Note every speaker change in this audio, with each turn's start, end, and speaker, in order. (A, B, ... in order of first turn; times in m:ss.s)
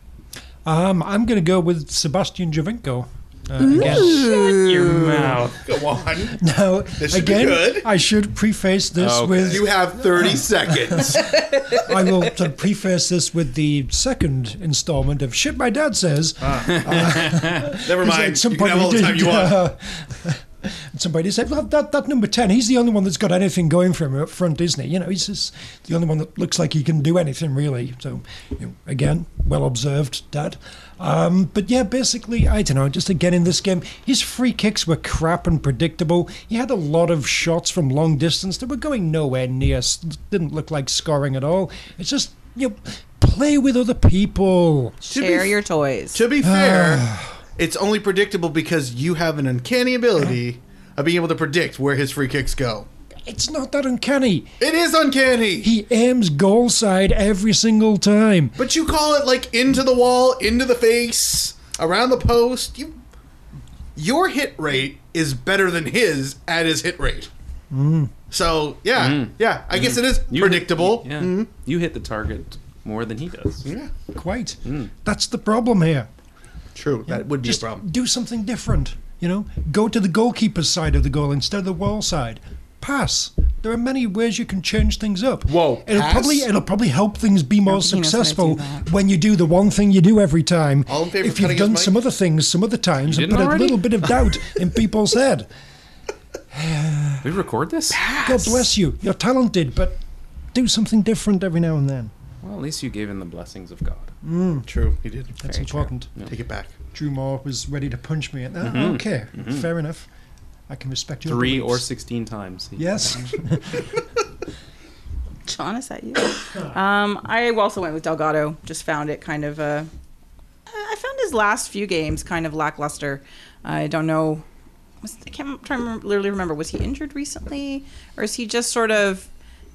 0:00.6-0:04.3 A
0:03.6-0:05.2 B
0:03.8-0:05.6 C
0:05.6-0:06.4 D
0:06.3-0:45.0 A
0:06.9-0:07.9 D
0:09.0-0:09.7 C
0:09.5-0:11.3 D
0:16.5-0:19.6 D
0:45.0-0:45.6 D
0:45.0-0:46.2 B
0:46.1-0:47.0 D
0:46.4-0:47.4 A
0:47.6-0:52.9 D
0:53.2-0:54.6 A
0:54.6-0:55.7 D
0:55.6-0:58.6 A
0:58.6-1:03.0 D
1:04.0-1:07.3 D
1:07.7-1:08.1 A
1:08.3-1:11.5 D
1:08.9-1:13.6 C
1:13.6-1:13.9 D
1:14.1-1:16.1 A
1:14.6-1:14.9 C
1:16.7-1:17.8 D
1:17.1-1:35.5 A
1:25.5-1:26.5 D
1:27.6-1:28.8 B
1:30.9-1:32.0 D
1:33.1-1:34.0 C
1:36.5-1:37.3 A
1:37.2-1:38.0 C
1:38.2-1:40.0 A
1:40.5-1:42.1 A
1:42.4-1:44.1 C
1:44.2-1:44.7 A
1:44.6-1:46.7 D
1:45.4-1:46.1 A
1:46.9-1:50.1 A
1:48.6-1:49.7 C
1:50.7-1:51.8 A
1:51.2-1:53.4 C
1:52.8-1:53.8 A
1:55.4-1:59.9 B
2:00.7-2:04.4 B
2:05.0-2:09.3 B